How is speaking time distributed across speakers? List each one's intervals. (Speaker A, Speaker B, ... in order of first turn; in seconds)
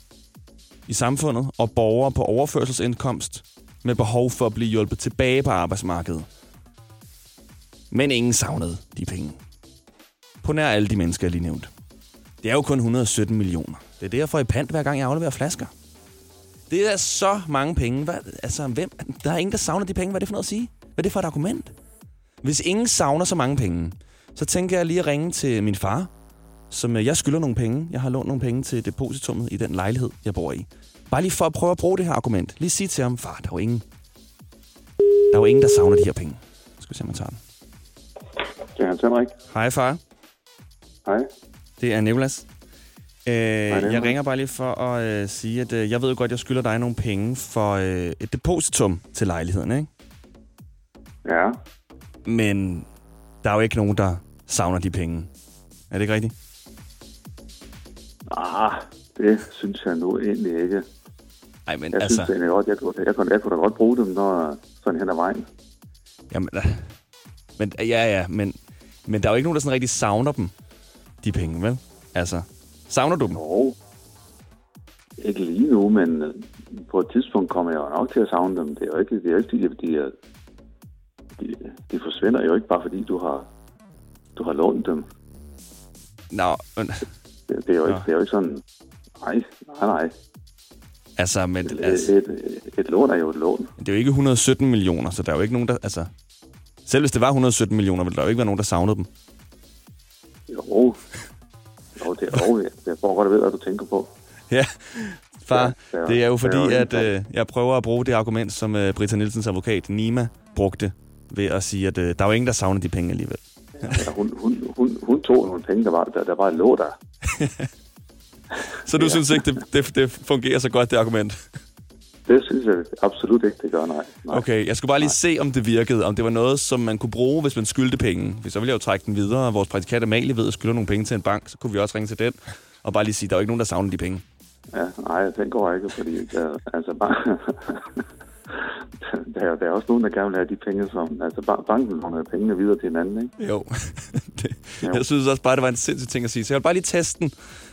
Speaker A: 0.9-6.3, 7.9-9.4, 10.4-11.7, 12.4-15.7, 16.7-21.7, 22.4-26.1, 26.7-33.9, 35.3-37.4, 39.5-40.0, 41.8-42.5, 43.2-49.9, 52.2-52.9, 53.4-55.3, 55.9-56.3, 61.7-62.3, 66.3-66.9, 67.6-70.5, 71.2-73.4, 86.3-87.0, 91.2-92.1, 93.8-96.1, 96.9-99.1, 104.5-114.0, 117.3-117.7, 118.9-121.4, 124.3-134.2, 143.4-147.3
Speaker B: 38.8-39.3, 43.7-44.1, 51.2-51.6, 58.3-60.9, 61.9-65.5, 73.3-73.8, 75.2-80.1, 81.4-83.5, 84.4-85.1, 87.5-88.6, 89.2-90.1, 91.6-93.7, 100.5-101.0, 102.0-104.1, 105.5-107.1, 113.8-117.0, 118.9-119.4, 122.3-124.5, 134.7-143.3